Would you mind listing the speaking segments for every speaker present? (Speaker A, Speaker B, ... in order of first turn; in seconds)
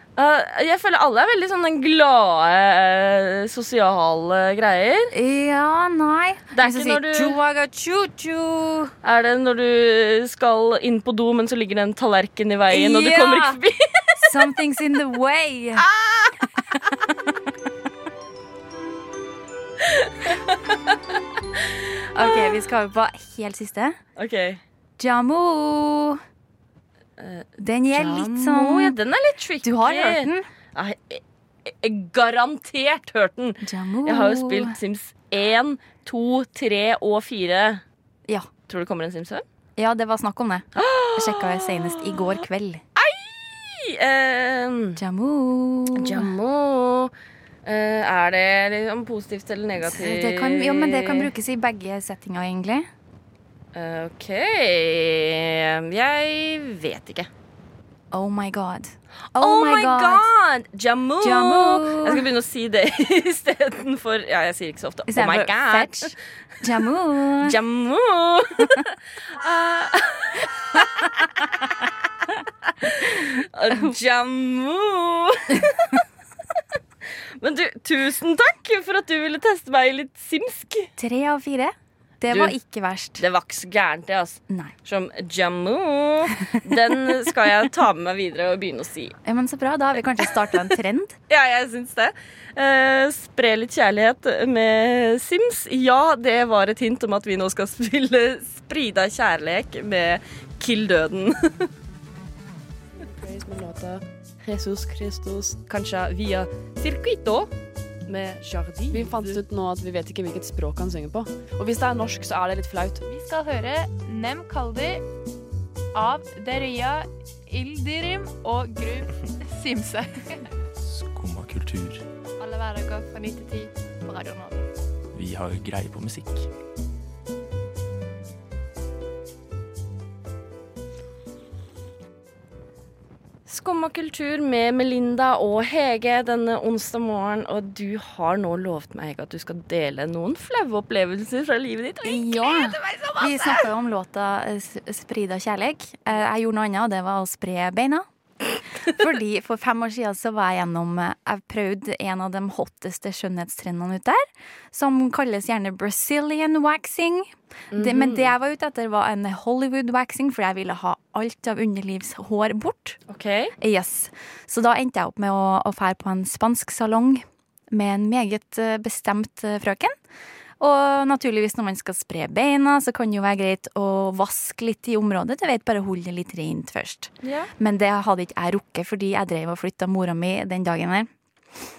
Speaker A: 0.2-5.1, 6.5-7.4, 9.0-14.3, 15.8-16.5, 19.8-21.0, 21.6-22.2, 24.2-24.6, 27.2-37.8, 38.7-39.4, 40.8-42.4, 43.0-45.0, 46.0-47.1, 47.6-51.3, 53.7-57.3, 59.4-66.1, 67.4-68.8, 69.4-71.1, 72.8-76.0, 77.4-80.9, 82.3-82.5, 83.2-89.2, 91.3-101.7, 133.5-143.5, 157.7-158.3, 163.1-163.5, 177.2-177.5
Speaker B: 5.1-8.9, 12.7-13.6, 14.2-15.8, 22.1-24.0, 25.0-26.2, 27.6-28.9, 29.6-30.5, 33.6-34.8, 39.8-42.8, 45.0-46.3, 49.8-52.9, 58.1-60.3, 61.2-62.2, 65.1-67.5, 81.0-83.2, 89.2-91.2, 142.0-148.1, 148.9-163.0, 163.6-169.9, 170.6-181.1
Speaker C: 103.2-105.5, 108.2-113.0
Speaker D: 105.9-107.5, 108.9-109.4, 113.0-115.0, 115.9-120.5, 122.4-124.7
Speaker E: 120.8-122.0, 125.1-126.5